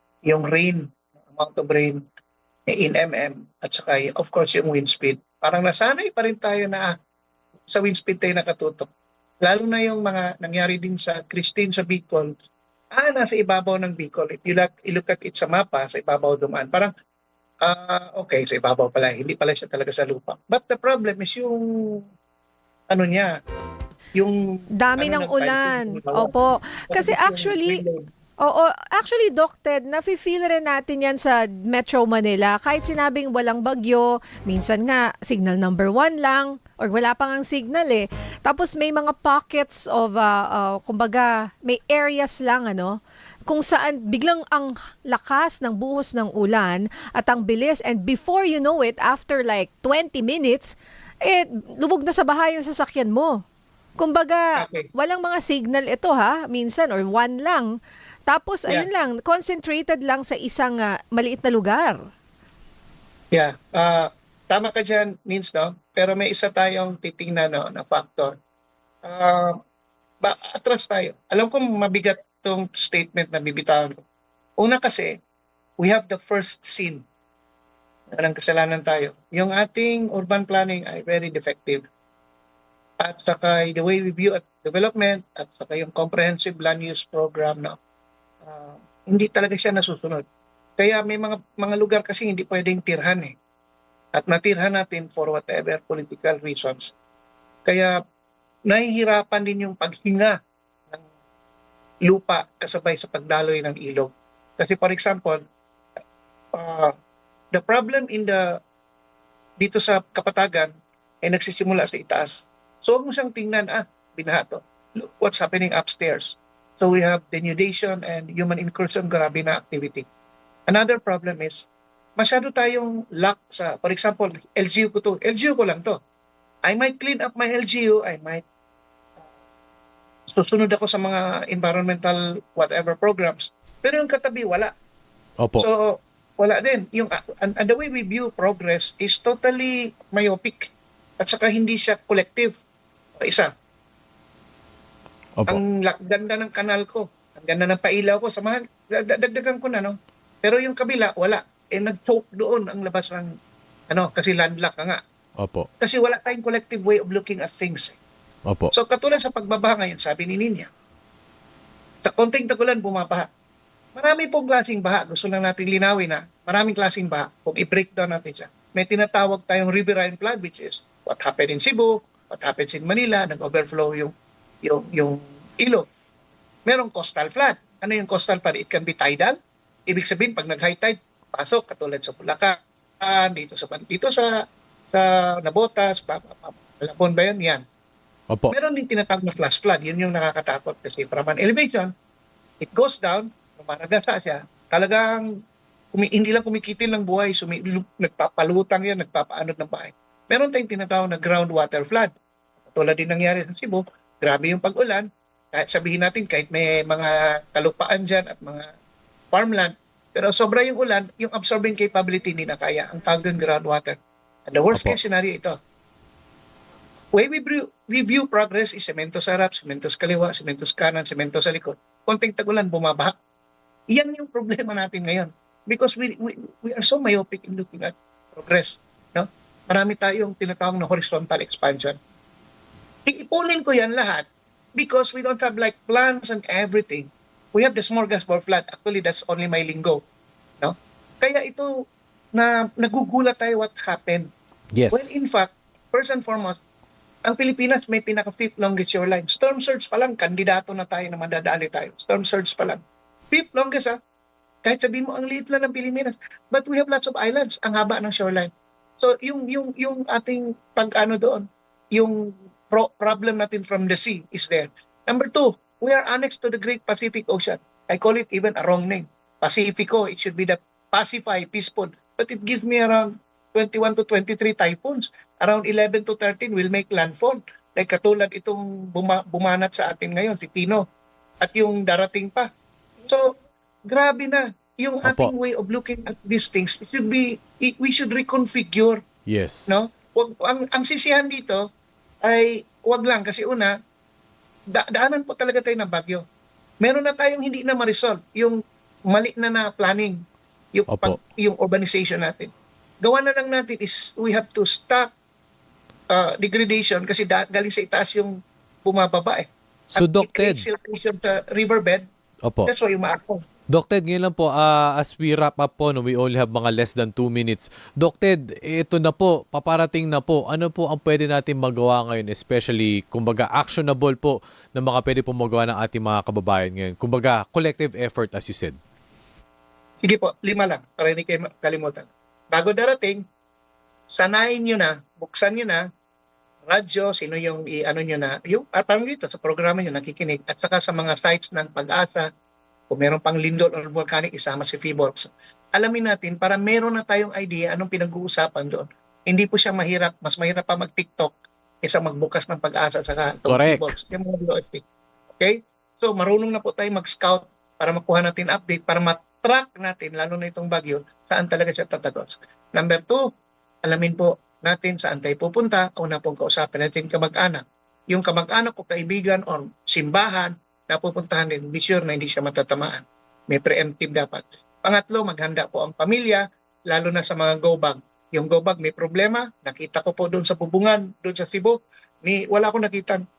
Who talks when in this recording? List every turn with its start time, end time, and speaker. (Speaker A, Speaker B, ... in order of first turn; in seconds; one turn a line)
Speaker A: 0.2-2.0
Speaker A: 2.7-6.9
Speaker A: 7.7-8.9
Speaker A: 9.4-12.3
Speaker A: 12.9-16.9
Speaker A: 17.6-22.0
Speaker A: 22.9-23.3
Speaker A: 24.1-26.3
Speaker B: 24.8-27.8
Speaker A: 26.9-28.1
Speaker B: 28.4-53.4
Speaker B: 54.0-57.7
Speaker A: 54.5-54.9
Speaker B: 58.3-62.0
Speaker A: 63.3-68.3
Speaker A: 69.0-69.5
Speaker A: 70.2-74.0
Speaker A: 74.6-75.2
Speaker A: 75.8-77.0
Speaker A: 78.1-81.9
Speaker A: 83.0-87.8
Speaker A: 88.4-90.2
Speaker A: 90.8-93.3
Speaker A: 94.1-96.9
Speaker A: 97.6-98.0
Speaker A: 98.7-100.3
Speaker A: 102.0-105.4
Speaker A: 106.5-106.9
Speaker A: 107.5-108.5
Speaker A: 109.6-110.7
Speaker A: 111.2-120.0
Speaker A: 120.7-126.0
Speaker A: 126.7-128.4
Speaker A: 130.3-134.7
Speaker C: 135.4-135.6
Speaker A: 135.6-142.6
Speaker A: 143.2-143.5
Speaker A: 145.5-153.3
Speaker A: 153.9-155.0
Speaker C: 155.4-155.7
Speaker A: 155.8-158.0
Speaker C: 158.4-158.7
Speaker A: 158.7-160.7
Speaker A: 162.0-163.3
Speaker A: 163.9-174.1
Speaker A: 174.6-175.9
Speaker A: 176.7-179.3
Speaker A: 179.9-187.6
Speaker A: 188.5-191.9
Speaker A: 192.6-195.2
Speaker A: 195.9-202.1
Speaker A: 202.7-208.7
Speaker A: 209.3-213.9
Speaker A: 214.5-215.5
Speaker C: 214.7-215.0
Speaker A: 217.1-223.1
Speaker A: 223.9-232.0
Speaker A: 233.1-240.0
Speaker A: 240.6-241.7
Speaker A: 242.3-244.3
Speaker C: 244.7-245.2
Speaker A: 244.9-246.6
Speaker A: 247.2-254.0
Speaker A: 254.6-280.8
Speaker A: 281.4-282.5
Speaker A: 283.9-289.0
Speaker C: 285.0-285.3
Speaker C: 289.3-289.9
Speaker A: 289.7-291.6
Speaker A: 292.2-293.7
Speaker A: 294.7-296.2
Speaker A: 296.8-298.6
Speaker A: 299.1-300.2
Speaker A: 300.7-302.5
Speaker C: 300.9-301.2
Speaker A: 303.0-305.1
Speaker A: 306.1-312.0
Speaker C: 309.9-310.6
Speaker C: 312.4-312.7
Speaker A: 312.7-313.4
Speaker C: 313.7-328.8
Speaker A: 330.0-333.2
Speaker A: 334.1-335.8
Speaker A: 336.7-342.3
Speaker A: 342.9-354.8
Speaker C: 353.4-353.9
Speaker A: 355.4-363.2
Speaker A: 363.8-383.2